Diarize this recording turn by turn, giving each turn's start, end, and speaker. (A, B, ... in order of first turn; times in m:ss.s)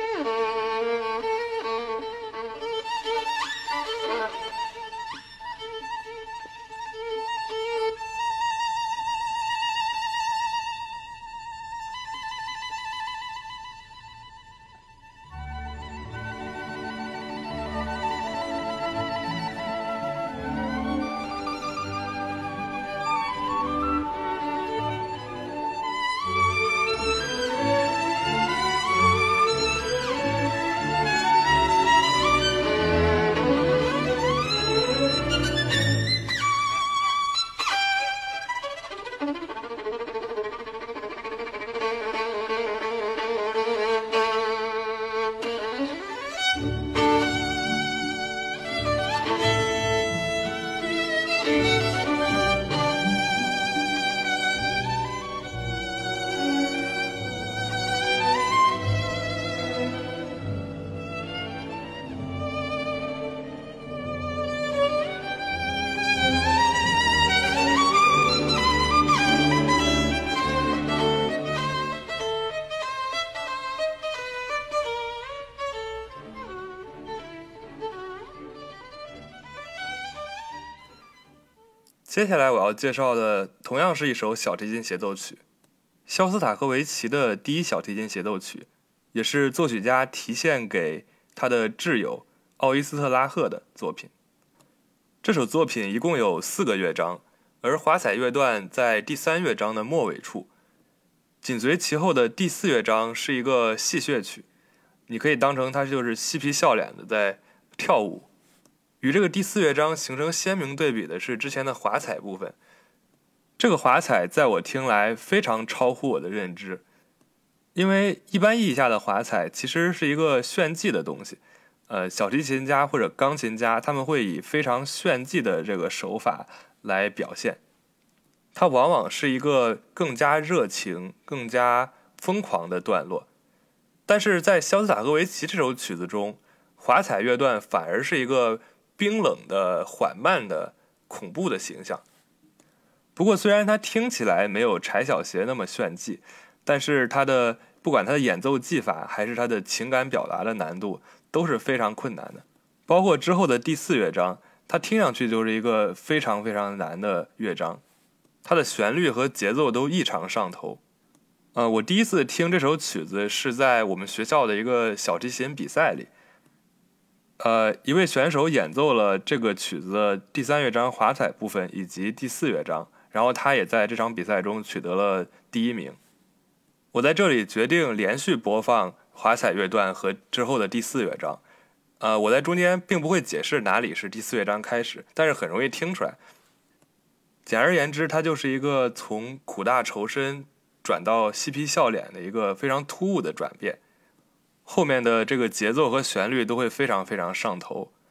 1:22.0-1:25.4 A
1:26.1-1:34.1 A
1:35.2-1:40.5 A
1:41.4-1:44.5 A
1:45.1-1:48.3 A
1:49.0-1:52.6 A
1:53.6-1:56.8 A
1:57.7-2:07.6 A
2:08.5-2:13.3 A
2:14.1-2:22.0 A
2:23.2-2:37.8 A
2:38.4-2:40.8 A
2:41.5-2:46.1 A
2:47.4-2:56.0 A
2:56.9-3:01.4 A
3:02.0-3:06.2 A
3:07.4-3:13.8 A
3:14.6-3:17.9 A